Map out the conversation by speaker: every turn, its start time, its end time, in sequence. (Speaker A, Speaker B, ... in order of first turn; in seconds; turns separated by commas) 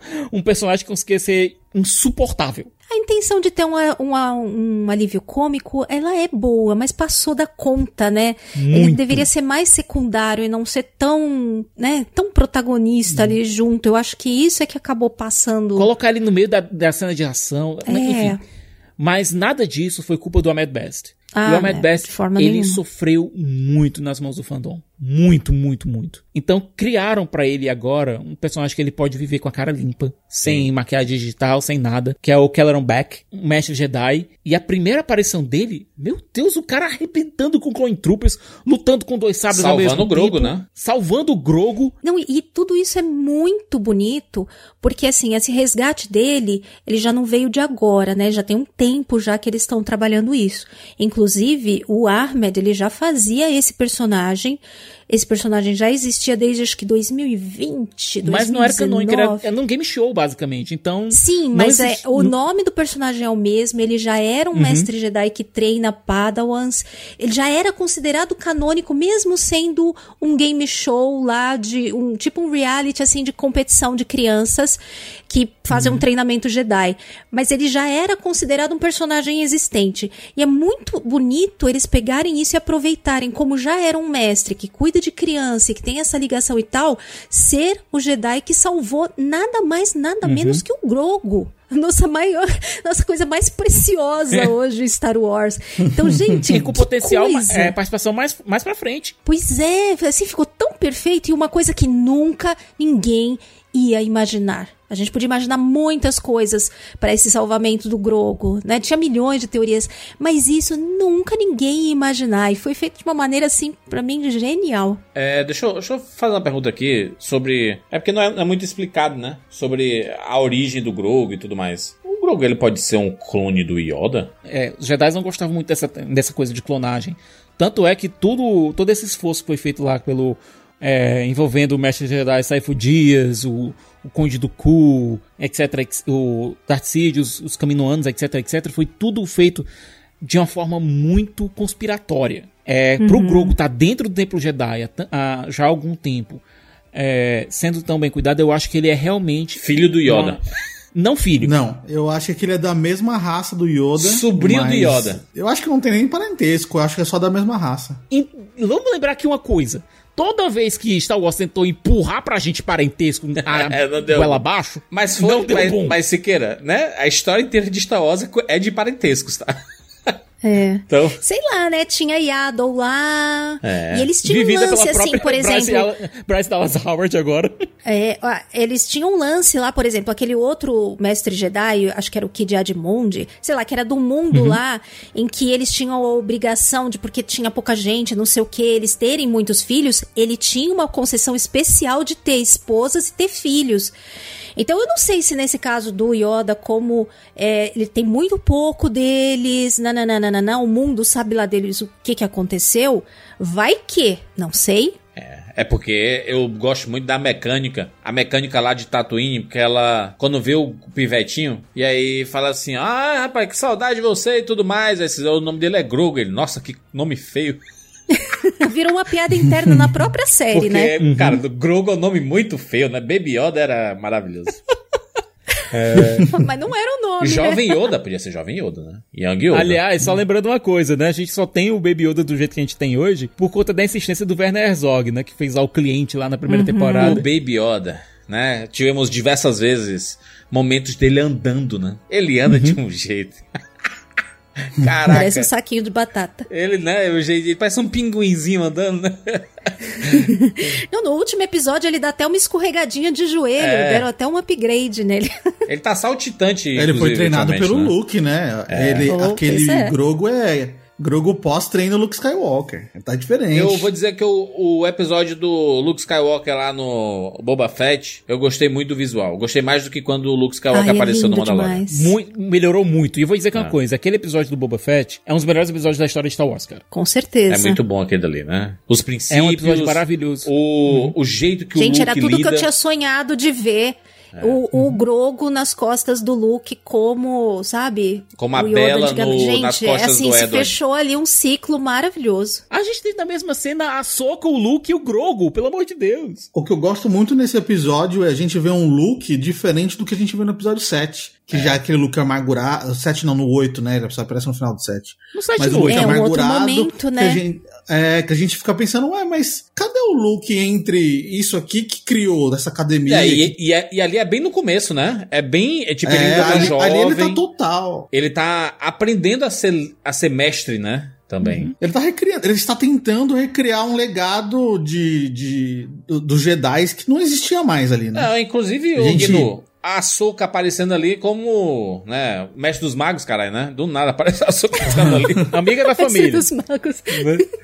Speaker A: 0.3-2.7, Speaker B: 2.9-15.9, Speaker A: 8.6-9.3, Speaker A: 15.8-18.4, Speaker B: 17.9-18.4, Speaker A: 19.0-42.0, Speaker B: 21.3-22.8, Speaker C: 39.5-40.6, Speaker B: 42.0-59.4, Speaker A: 58.2-62.3, Speaker B: 61.1-74.8, Speaker A: 64.5-64.9, Speaker B: 75.3-97.7, Speaker A: 75.7-76.0, Speaker A: 90.2-90.6, Speaker A: 96.5-99.2, Speaker B: 99.2-115.0, Speaker C: 115.2-124.3, Speaker A: 124.5-139.7, Speaker A: 140.2-146.4, Speaker B: 143.0-143.6, Speaker A: 146.9-150.4, Speaker C: 149.6-150.4, Speaker A: 150.9-151.6, Speaker D: 151.4-158.0, Speaker C: 154.0-155.2, Speaker A: 158.1-166.0, Speaker C: 163.5-170.1, Speaker B: 170.4-175.9, Speaker C: 170.9-171.2, Speaker C: 173.6-174.1, Speaker A: 174.2-177.7, Speaker B: 177.8-193.9, Speaker A: 184.3-184.6, Speaker B: 194.6-204.9, Speaker C: 205.2-217.6, Speaker B: 218.5-220.9, Speaker C: 220.5-224.6, Speaker A: 221.0-221.4, Speaker C: 225.7-226.3, Speaker A: 226.0-226.2, Speaker B: 226.3-227.7, Speaker C: 227.2-229.8, Speaker A: 229.5-237.3, Speaker B: 236.5-237.2, Speaker C: 237.0-243.4, Speaker A: 242.5-242.8, Speaker C: 244.7-245.5, Speaker B: 245.1-246.5, Speaker C: 246.5-250.3, Speaker B: 250.3-255.3, Speaker C: 253.6-254.1, Speaker C: 255.7-257.9, Speaker D: 256.8-263.9, Speaker C: 258.7-259.1, Speaker B: 259.1-259.9, Speaker C: 263.5-271.8, Speaker B: 270.7-272.1, Speaker A: 271.9-276.8, Speaker B: 276.9-277.8, Speaker C: 277.5-282.7, Speaker A: 279.3-280.5, Speaker B: 281.8-292.6, Speaker C: 284.3-284.6, Speaker C: 288.4-290.8, Speaker A: 292.7-296.5, Speaker D: 296.5-313.5, Speaker C: 301.5-301.8, Speaker A: 305.3-306.2, Speaker B: 305.9-307.4, Speaker C: 313.1-317.4, Speaker D: 316.0-318.1, Speaker C: 318.1-321.7, Speaker A: 321.4-321.7, Speaker D: 321.8-328.3, Speaker C: 328.1-335.5, Speaker D: 329.0-329.5, Speaker D: 334.9-335.4, Speaker A: 335.5-336.4, Speaker B: 335.9-337.4, Speaker C: 337.1-337.4